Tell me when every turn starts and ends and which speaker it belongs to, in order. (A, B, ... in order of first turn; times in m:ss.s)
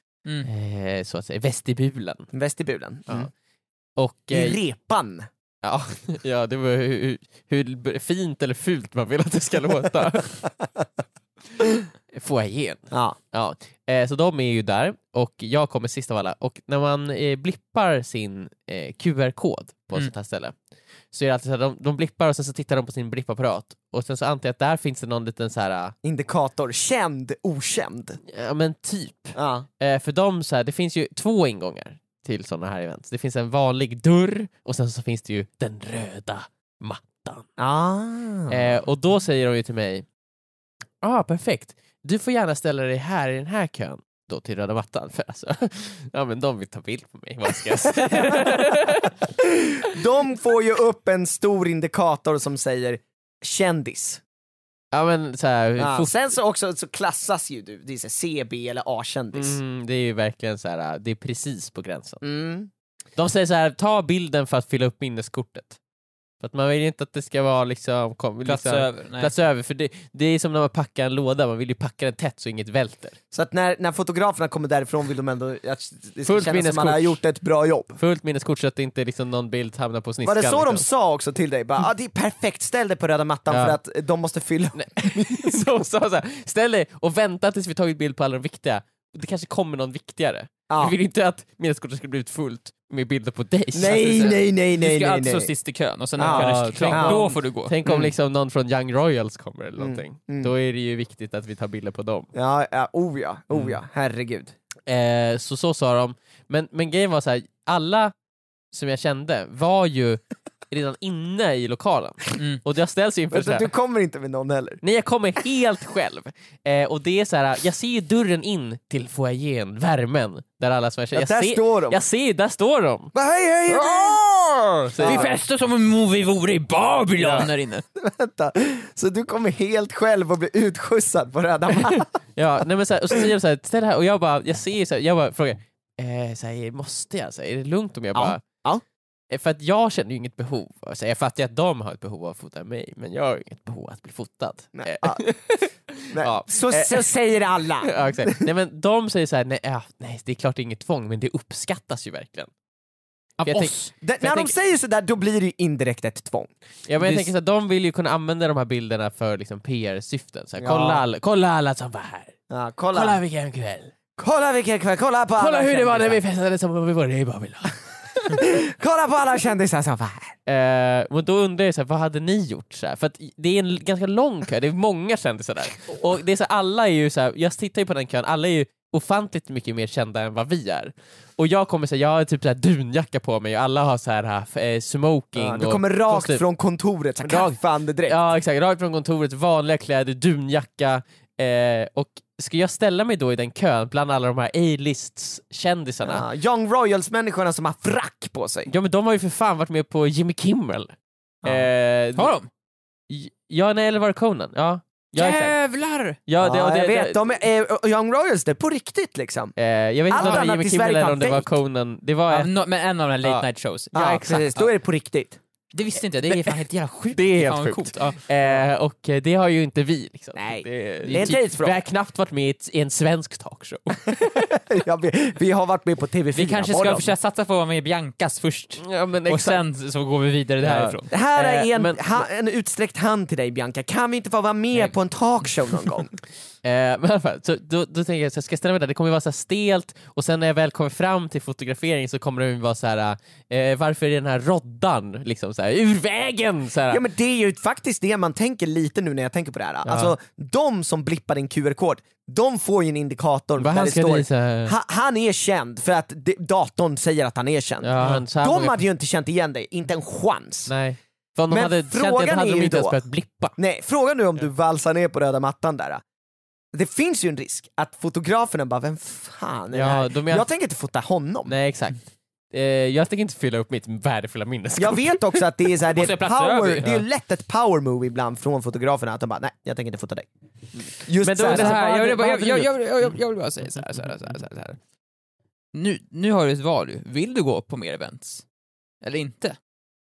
0:00.4-0:02.3 A
0:02.3-0:03.3 B
0:04.0-0:04.6 A
0:04.3-0:05.3 B
0:05.6-0:10.5 A
0:12.1-0:20.6 A
0:12.9-0:13.2 B
0:21.1-0:25.9 A
0:26.0-0:28.2 B
0:28.3-0:37.5 A
0:29.4-0:29.7 B
0:37.6-0:38.8 B
0:38.5-0:40.0 A
0:41.0-0:49.1 A
0:48.0-0:48.8 B
0:49.4-0:54.2 B
0:54.9-0:56.1 A
0:55.8-0:59.6 B
0:59.3-1:02.2 A
1:02.2-1:02.7 B
1:03.2-1:05.8 A
1:06.4-1:13.2 A
1:08.4-1:09.3 C
1:13.3-1:18.0 B
1:16.2-1:17.2 A
1:18.0-1:20.8 A
1:20.2-1:25.6 B
1:23.5-1:23.8 A
1:24.7-1:34.4 A
1:30.7-1:31.0 B
1:33.7-1:35.5 B
1:33.8-1:37.7 C
1:36.2-1:37.2 B
1:36.2-1:42.3 A
1:37.8-1:38.1 B
1:39.8-1:40.5 B
1:42.3-1:44.5 B
1:43.5-1:43.8 A
1:44.9-1:48.1 A
1:48.7-1:53.7 A
1:52.4-1:52.6 C
1:53.3-1:54.8 B
1:54.8-2:03.1 A
2:01.1-2:02.0 B
2:03.1-2:05.3 B
2:04.9-2:05.3 A
2:05.0-2:07.8 C
2:07.2-2:12.1 B
2:12.4-2:18.4 A
2:18.1-2:18.8 B
2:19.3-2:27.1 A
2:24.8-2:25.2 B
2:26.1-2:28.3 B
2:27.8-2:32.5 A
2:33.4-2:34.5 A
2:33.5-2:33.9 C
2:34.0-2:36.5 B
2:36.9-2:42.4 A
2:37.0-2:37.3 C
2:40.6-2:41.0 B
2:42.5-2:43.2 B
2:42.9-2:43.9 A
2:44.2-2:46.2 B
2:45.4-2:48.2 A
2:48.3-2:50.4 B
2:50.5-3:06.4 A
3:05.4-3:08.2 B
3:07.2-3:16.3 A
3:16.0-3:18.7 B
3:18.7-3:20.9 A
3:21.4-3:21.7 B
3:21.4-3:22.4 A
3:22.2-3:22.5 C
3:23.1-3:25.6 A
3:25.2-3:26.2 C
3:26.3-3:27.2 A
3:26.4-3:29.6 B
3:29.6-3:32.5 A
3:30.1-3:31.5 B
3:30.2-3:30.4 C
3:32.3-3:34.7 C
3:33.9-3:35.4 B
3:35.7-3:38.2 C
3:36.3-3:44.6 A
3:40.4-3:41.8 B
3:41.0-3:41.4 C
3:44.1-3:47.1 B
3:46.4-3:51.1 C
3:46.8-3:47.0 A
3:48.8-3:49.6 A
3:50.6-3:52.3 A
3:51.1-3:56.2 B
3:56.6-4:07.0 A
4:06.9-4:20.7 B
4:09.9-4:10.1 A
4:13.6-4:14.8 A
4:17.8-4:18.8 A
4:18.0-4:18.2 C
4:20.7-4:23.6 A
4:21.5-4:23.0 B
4:23.6-4:26.0 B
4:26.7-4:31.6 B
4:29.7-4:30.5 A
4:31.5-4:35.4 A
4:34.8-4:40.3 B
4:36.0-4:36.9 C
4:40.8-4:43.2 A
4:41.0-4:41.8 B
4:41.4-4:44.8 C
4:43.8-4:44.0 A
4:45.7-4:48.4 C
4:49.0-4:49.6 C